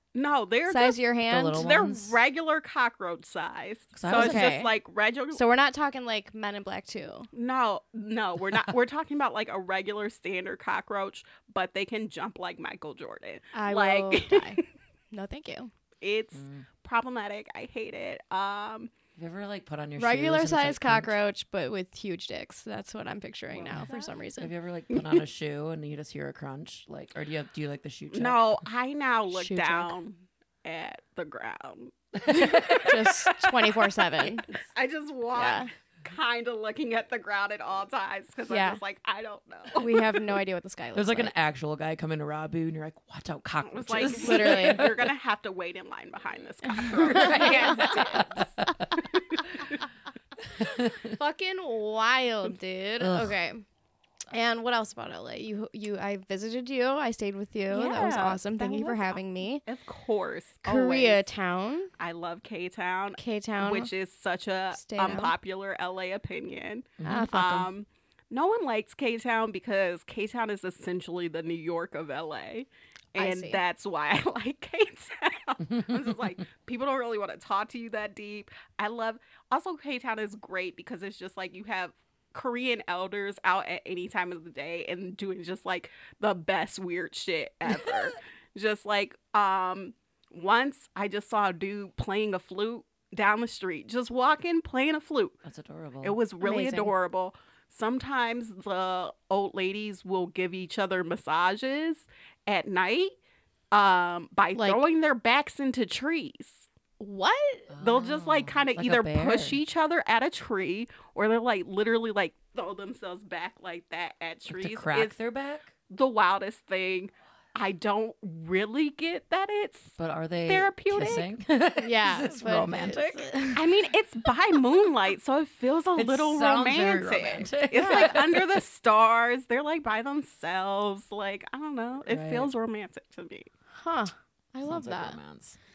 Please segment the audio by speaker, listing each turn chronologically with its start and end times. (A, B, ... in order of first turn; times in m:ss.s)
0:00.1-0:01.0 A
0:00.7-0:01.7 B
0:01.3-0:02.2 C
0:01.5-0:05.4 A
0:03.9-0:04.6 C
0:04.1-0:04.7 B
0:05.3-0:07.3 B
0:07.3-0:14.7 A
0:13.5-0:15.7 B
0:16.0-0:18.9 A
0:16.3-0:16.7 C
0:19.2-0:21.2 C
0:20.0-0:24.5 B
0:23.6-0:28.6 C
0:23.7-0:24.1 A
0:24.9-0:25.2 A
0:28.1-0:33.1 A
0:29.3-0:29.9 B
0:32.2-0:32.9 C
0:32.5-0:34.5 B
0:34.2-0:40.2 A
0:35.3-0:35.7 B
0:38.5-0:38.8 B
0:39.8-0:41.3 B
0:40.9-0:45.1 C
0:43.6-0:48.5 A
0:44.0-0:44.9 B
0:46.7-0:48.7 B
0:46.9-0:48.9 C
0:50.6-0:51.1 C
0:50.6-0:53.6 B
0:53.0-0:53.4 C
0:54.3-0:59.6 B
0:57.7-1:01.2 A
1:00.6-1:01.9 B
1:02.0-1:35.4 A
1:03.2-1:03.9 B
1:04.7-1:05.3 B
1:07.0-1:07.3 C
1:07.0-1:07.7 B
1:13.2-1:13.6 B
1:35.4-1:36.2 C
1:36.0-1:43.1 A
1:36.4-1:36.9 B
1:43.7-1:46.7 A
1:44.6-1:44.8 B
1:47.0-1:47.7 B
1:47.7-1:49.6 C
1:47.8-1:55.2 A
1:54.5-1:55.7 C
1:55.9-2:01.3 A
2:00.0-2:03.3 C
2:01.8-2:03.7 B
2:03.6-2:13.5 A
2:06.0-2:08.6 C
2:07.8-2:08.1 B
2:12.1-2:12.5 C
2:13.8-2:15.2 B
2:14.6-2:15.6 C